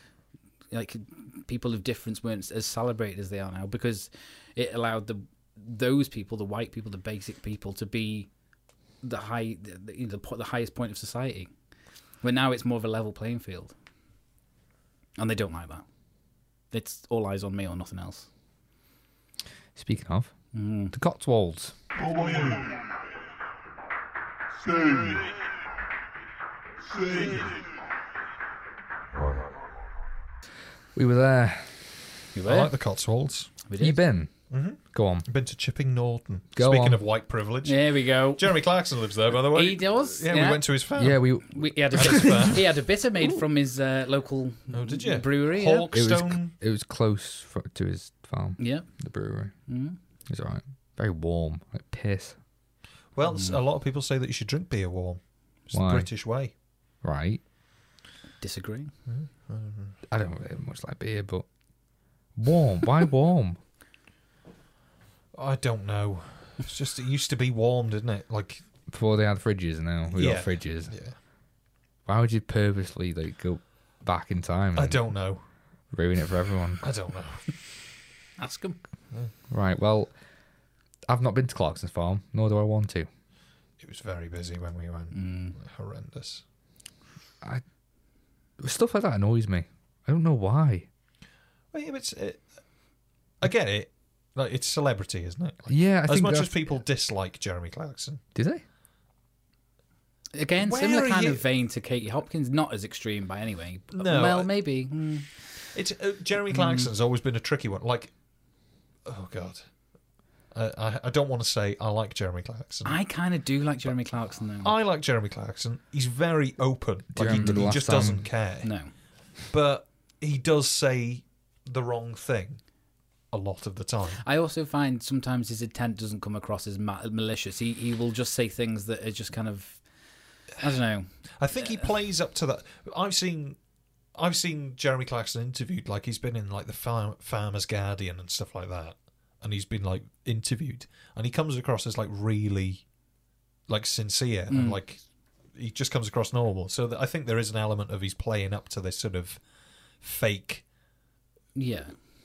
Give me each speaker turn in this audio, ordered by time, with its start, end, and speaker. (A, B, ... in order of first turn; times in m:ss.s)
0:00.7-0:08.3 A
0:09.0-0:11.5 A
0:12.2-0:13.7 A
0:15.2-0:15.8 A
0:16.7-0:18.3 A
0:19.8-0:20.4 B
0:20.5-0:21.0 A
0:20.9-0:21.7 B
0:31.0-0:31.8 B
0:32.3-0:32.7 A
0:32.5-0:33.5 C
0:33.7-0:34.0 A
0:33.8-0:35.3 B
0:34.5-0:41.3 C
0:36.6-0:37.0 B
0:37.6-0:38.6 A
0:39.5-0:40.7 A
0:41.0-0:42.5 B
0:41.5-0:45.9 A
0:41.9-0:42.7 C
0:44.7-0:46.6 C
0:45.9-0:49.5 B
0:48.6-0:48.9 A
0:49.7-0:50.0 A
0:50.3-0:52.4 B
0:53.2-0:56.5 C
0:53.2-0:53.6 A
0:55.7-0:56.1 B
0:57.0-0:57.4 B
0:58.4-0:58.9 A
0:59.1-1:00.0 C
1:00.1-1:01.4 B
1:02.4-1:03.6 B
1:05.3-1:08.6 C
1:08.9-1:11.0 B
1:10.1-1:11.2 C
1:12.1-1:15.1 B
1:14.8-1:15.4 C
1:15.9-1:16.8 B
1:16.8-1:17.5 C
1:18.4-1:18.8 A
1:19.5-1:20.1 B
1:21.1-1:23.1 B
1:23.8-1:26.4 C
1:25.1-1:25.6 A
1:28.6-1:30.9 B
1:31.7-1:32.5 C
1:33.4-1:38.2 C
1:35.7-1:36.6 B
1:38.4-1:38.6 B
1:40.3-1:45.3 A
1:40.6-1:41.4 C
1:43.9-1:44.5 C
1:45.7-1:48.1 C
1:46.5-1:46.9 A
1:49.1-1:49.7 C
1:50.5-1:53.0 C
1:52.8-1:54.7 A
1:54.6-1:58.7 C
1:57.1-1:58.3 B
1:58.6-1:58.9 A
1:59.5-2:02.6 C
2:03.3-2:04.2 C
2:04.2-2:09.8 A
2:10.6-2:11.8 A
2:11.4-2:13.6 C
2:14.2-2:22.9 C
2:23.7-2:25.0 C
2:24.5-2:24.8 A
2:25.6-2:29.4 C
2:30.0-2:30.6 C
2:31.6-2:31.9 A